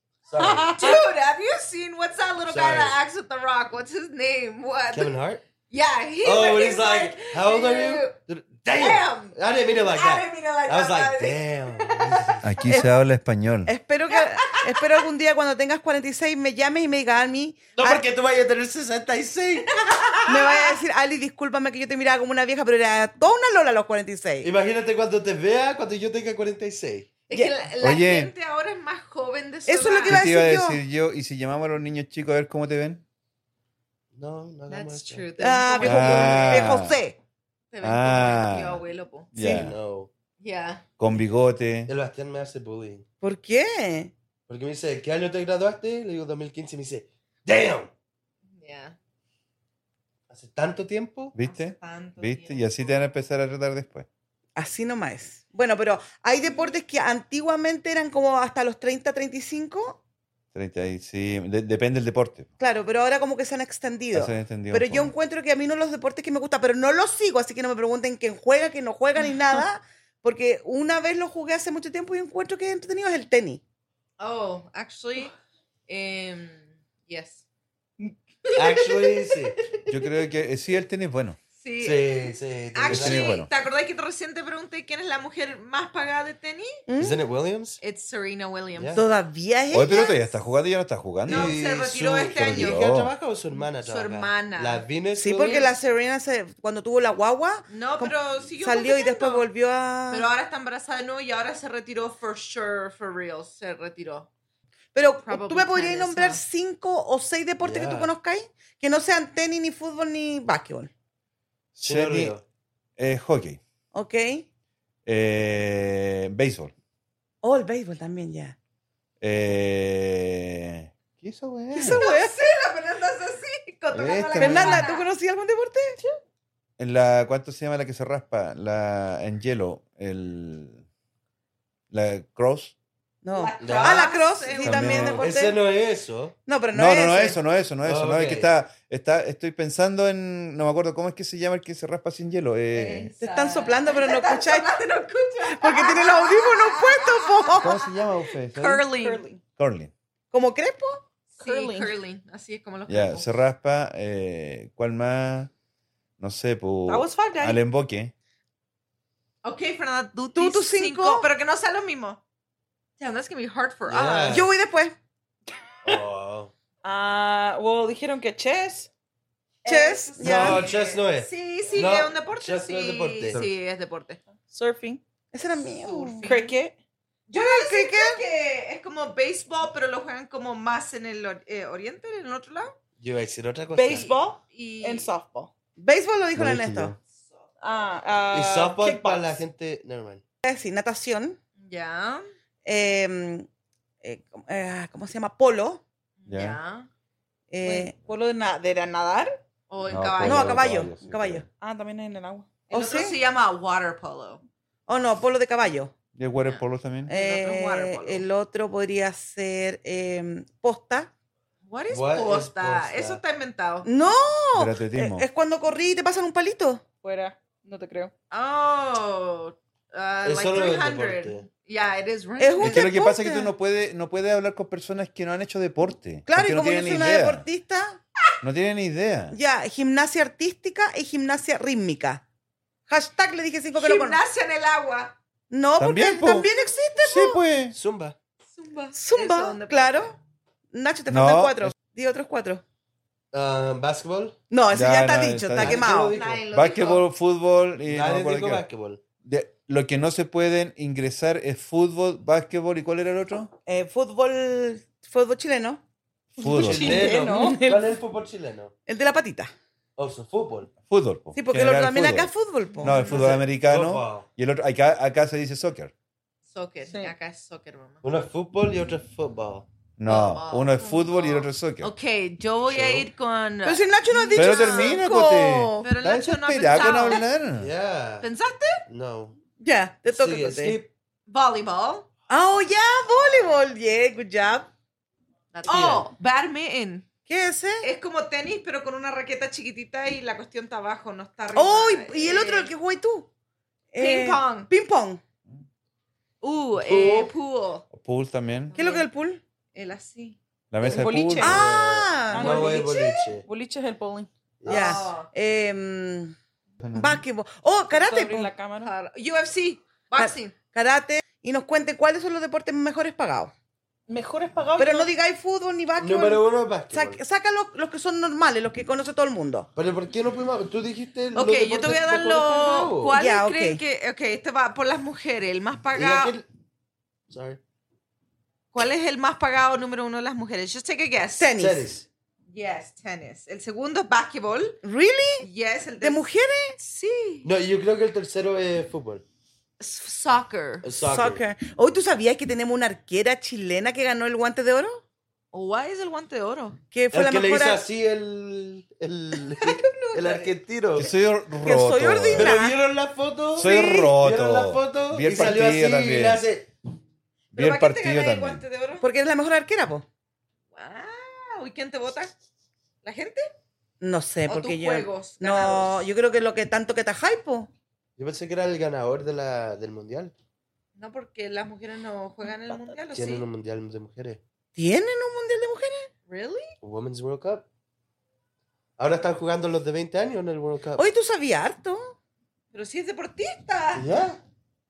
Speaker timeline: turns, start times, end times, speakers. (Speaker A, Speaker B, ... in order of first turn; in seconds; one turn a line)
Speaker A: 0.2-0.7
Speaker B: 0.4-1.0
Speaker C: 0.6-5.1
Speaker A: 2.5-3.0
Speaker A: 4.9-5.4
Speaker C: 5.7-8.2
Speaker A: 6.2-12.5
Speaker C: 8.7-12.3
Speaker D: 12.4-13.7
Speaker E: 13.7-18.0
Speaker C: 14.1-15.0
Speaker A: 17.8-19.7
Speaker C: 19.8-20.8
Speaker E: 20.2-24.5
Speaker A: 24.4-27.1
Speaker C: 27.3-30.2
Speaker D: 27.8-28.3
Speaker E: 29.7-30.8
Speaker D: 30.1-33.0
Speaker A: 34.1-35.3
Speaker C: 34.7-36.7
Speaker E: 35.4-37.2
Speaker D: 35.8-36.9
Speaker C: 37.7-39.6
Speaker D: 37.8-38.8
Speaker D: 39.3-39.8
Speaker A: 39.4-40.1
Speaker C: 40.4-40.8
Speaker D: 41.0-41.9
Speaker A: 41.9-43.0
Speaker E: 43.2-44.1
Speaker A: 44.5-47.9
Speaker C: 48.5-49.0
Speaker A: 50.3-51.3
Speaker D: 51.3-54.1
Speaker C: 51.4-53.1
Speaker E: 54.5-60.0
Speaker D: 60.5-62.5
Speaker E: 62.6-73.6
Speaker D: 64.1-65.1
Speaker C: 74.2-75.3
Speaker C: 75.9-77.4
Speaker C: 78.5-79.8
Speaker A: 78.5-79.6
Speaker D: 79.9-81.4
Speaker C: 81.6-86.8
Speaker A: 81.8-83.3
Speaker D: 82.9-83.5
Speaker E: 86.9-87.2
Speaker A: 87.0-87.8
Speaker C: 87.8-89.0
Speaker A: 88.8-89.0
Speaker E: 89.0-90.3
Speaker D: 89.7-91.5
Speaker C: 91.3-92.8
Speaker A: 91.3-95.7
Speaker D: 92.3-93.1
Speaker C: 93.5-94.8
Speaker E: 95.2-100.3
Speaker C: 95.4-95.7
Speaker C: 97.7-99.5
Speaker C: 100.1-104.3
Speaker E: 104.9-110.9
Speaker C: 105.2-106.4
Speaker A: 107.6-108.1
Speaker D: 111.7-112.3
Speaker A: 111.8-112.4
Speaker D: 113.0-113.6
Speaker E: 113.9-114.5
Speaker D: 115.0-116.7
Speaker E: 117.4-118.5
Speaker D: 119.2-122.0
Speaker E: 121.7-122.3
Speaker C: 121.8-125.0
Speaker D: 123.9-124.9
Speaker E: 124.4-126.0
Speaker D: 126.8-130.8
Speaker D: 131.9-132.7
Speaker E: 133.2-135.6
Speaker C: 133.3-135.3
Speaker A: 133.6-134.0
Speaker D: 134.6-135.3
Speaker A: 135.0-136.3
Speaker E: 136.4-137.4
Speaker D: 136.7-143.1
Speaker A: 137.8-138.5
Speaker C: 142.7-149.2
Speaker E: 143.2-144.7
Speaker E: 145.4-147.7
Speaker D: 147.6-148.8
Speaker B: 148.8-149.4
Speaker D: 149.6-149.9
Speaker E: 150.3-151.0
Speaker B: 151.4-151.9
Speaker C: 151.4-153.3
Speaker D: 152.9-155.5
Speaker D: 156.2-158.1
Speaker B: 156.9-157.6
Speaker C: 159.4-162.2
Speaker E: 160.3-161.3
Speaker C: 163.0-164.4
Speaker A: 163.9-164.5
Speaker E: 164.3-164.9
Speaker A: 165.8-166.5
Speaker B: 166.8-168.9
Speaker C: 169.6-174.2
Speaker E: 169.6-170.7
Speaker A: 170.2-173.4
Speaker B: 174.4-175.0
Speaker E: 175.3-176.3
Speaker C: 175.6-176.6
Speaker B: 176.2-176.7
Speaker C: 177.3-182.7
Speaker E: 177.3-178.2
Speaker A: 183.0-184.1
Speaker B: 183.7-185.5
Speaker C: 183.9-185.1
Speaker E: 185.8-186.9
Speaker D: 186.3-187.0
Speaker C: 187.2-187.4
Speaker B: 187.6-189.4
Speaker A: 188.3-190.2
Speaker E: 190.4-191.4
Speaker C: 191.6-192.2
Speaker E: 192.6-193.5
Speaker E: 194.0-195.8
Speaker C: 196.2-196.9
Speaker D: 196.3-196.6
Speaker E: 197.5-197.9
Speaker B: 197.6-199.4
Speaker C: 199.7-200.6
Speaker D: 199.8-201.4
Speaker E: 200.2-201.4
Speaker B: 201.6-202.5
Speaker C: 202.7-204.4
Speaker E: 202.7-203.2
Speaker E: 204.9-205.9
Speaker D: 206.1-207.1
Speaker C: 206.4-208.2
Speaker E: 207.1-211.1
Speaker C: 211.7-213.9
Speaker A: 211.9-213.2
Speaker E: 213.8-216.8
Speaker D: 214.6-215.2
Speaker B: 217.0-218.1
Speaker C: 218.3-222.9
Speaker A: 220.2-221.4
Speaker E: 222.4-223.5
Speaker D: 222.6-227.4
Speaker E: 226.2-228.0
Speaker D: 228.4-229.3
Speaker E: 229.3-232.2
Speaker E: 232.9-234.2
Speaker C: 233.8-235.2
Speaker E: 235.5-237.4
Speaker D: 235.8-237.8
Speaker A: 237.7-238.2
Speaker C: 238.5-240.2
Speaker E: 238.9-240.2
Speaker E: 240.7-242.6
Speaker D: 241.1-241.7
Speaker A: 243.3-244.4
Speaker E: 244.5-246.2
Speaker D: 244.7-245.9
Speaker A: 245.6-246.4
Speaker C: 246.0-247.1
Speaker D: 246.5-248.6
Speaker A: 247.9-249.0
Speaker D: 249.2-253.5
Speaker E: 253.7-255.8
Speaker D: 256.4-257.1
Speaker B: 256.4-257.8
Speaker A: 256.4-258.7
Speaker E: 258.9-259.5
Speaker A: 260.0-260.7
Speaker D: 260.9-265.9
Speaker E: 261.3-263.0
Speaker C: 262.8-263.3
Speaker A: 263.0-264.2
Speaker C: 266.5-268.0
Speaker B: 266.9-267.1
Speaker A: 268.0-269.7
Speaker D: 270.0-271.9
Speaker C: 270.0-277.2
Speaker A: 272.7-273.1
Speaker E: 273.6-275.1
Speaker D: 274.3-277.7
Speaker A: 276.9-278.3
Speaker C: 278.2-278.8
Speaker A: 278.9-279.3
Speaker E: 279.6-280.8
Speaker A: 280.1-280.9
Speaker C: 281.3-282.1
Speaker E: 282.3-284.7
Speaker C: 285.5-287.1
Speaker A: 285.7-286.1
Speaker E: 287.3-287.8
Speaker C: 287.8-292.7
Speaker E: 291.5-293.3
Speaker E: 293.9-295.2
Speaker C: 294.0-294.7
Speaker C: 296.4-297.8
Speaker A: 296.8-297.3
Speaker D: 297.9-298.7
Speaker C: 298.7-299.1
Speaker E: 298.8-299.4
Speaker C: 299.7-300.4
Speaker D: 300.7-301.6
Speaker A: 300.8-303.4
Speaker B: 300.9-301.5
Speaker E: 301.4-302.8
Speaker B: 302.3-304.3
Speaker C: 302.4-303.2
Speaker A: 304.6-305.0
Speaker C: 304.7-305.3
Speaker E: 304.7-306.4
Speaker D: 306.8-307.2
Speaker E: 306.9-308.5
Speaker B: 307.9-308.9
Speaker C: 308.8-310.5
Speaker E: 310.1-313.5
Speaker B: 314.1-315.1
Speaker E: 314.8-319.7
Speaker A: 316.0-317.2
Speaker A: 319.7-323.1
Speaker C: 321.3-326.4
Speaker E: 323.1-323.8
Speaker A: 325.9-326.4
Speaker A: 327.3-327.6
Speaker C: 328.7-331.5
Speaker E: 331.4-331.9
Speaker A: 331.6-332.1
Speaker C: 332.5-334.8
Speaker E: 334.8-335.5
Speaker C: 335.4-337.5
Speaker E: 336.0-336.8
Speaker A: 337.4-339.2
Speaker C: 339.8-340.8
Speaker A: 340.8-341.4
Speaker E: 341.0-345.0
Speaker C: 345.5-346.8
Speaker E: 346.9-347.8
Speaker A: 347.1-351.1
Speaker C: 349.5-350.6
Speaker D: 350.9-352.6
Speaker E: 351.6-352.8
Speaker A: 352.3-356.7
Speaker D: 353.5-356.4
Speaker E: 353.6-354.1
Speaker C: 357.5-359.0
Speaker D: 357.5-358.6
Speaker E: 359.0-360.0
Speaker C: 360.7-362.3
Speaker C: 363.0-363.5
Speaker E: 364.0-367.7
Speaker C: 364.4-366.1
Speaker A: 368.2-370.3
Speaker C: 370.9-373.4
Speaker A: 373.1-374.4
Speaker E: 374.8-376.1
Speaker C: 376.3-376.7
Speaker A: 376.8-377.6
Speaker A: 379.0-381.0
Speaker E: 381.0-382.1
Speaker C: 382.7-384.1
Speaker A: 383.9-384.4